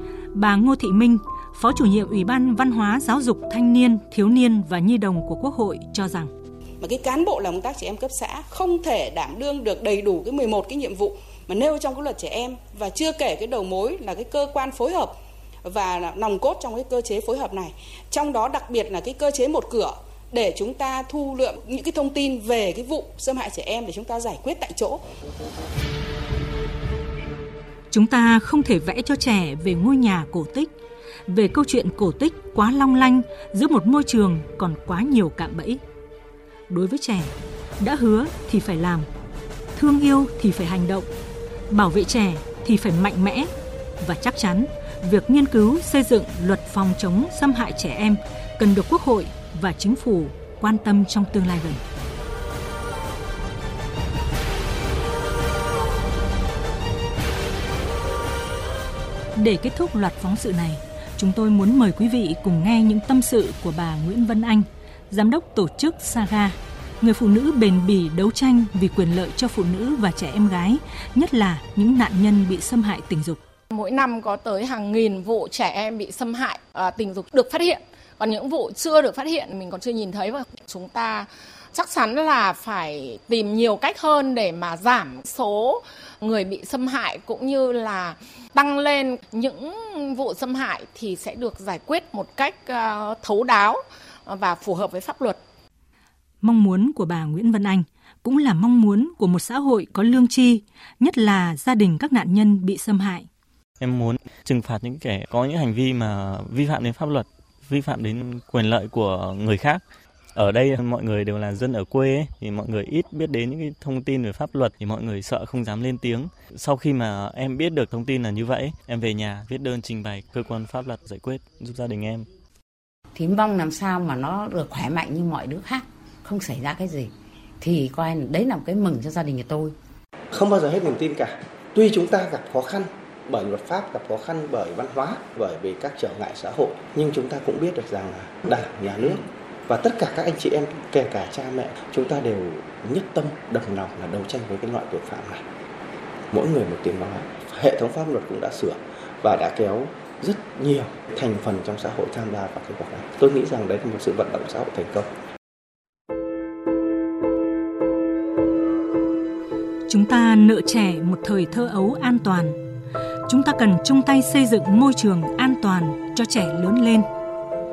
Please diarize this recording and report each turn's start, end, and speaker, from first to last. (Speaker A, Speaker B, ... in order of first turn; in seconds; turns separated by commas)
Speaker A: 0.3-6.3, Speaker B: 6.8-15.1, Speaker B: 15.7-25.0, Speaker A: 27.9-30.7, Speaker A: 31.3-35.8, Speaker A: 36.7-39.1, Speaker A: 39.8-41.1, Speaker A: 41.7-43.5, Speaker A: 44.0-51.8, Speaker A: 59.4-73.4, Speaker C: 73.7-95.4, Speaker A: 96.4-103.3, Speaker D: 103.8-109.8, Speaker D: 110.3-122.3, Speaker E: 123.2-129.8, Speaker F: 130.3-145.4, Speaker F: 146.3-155.1, Speaker A: 159.9-162.6, Speaker A: 163.3-167.1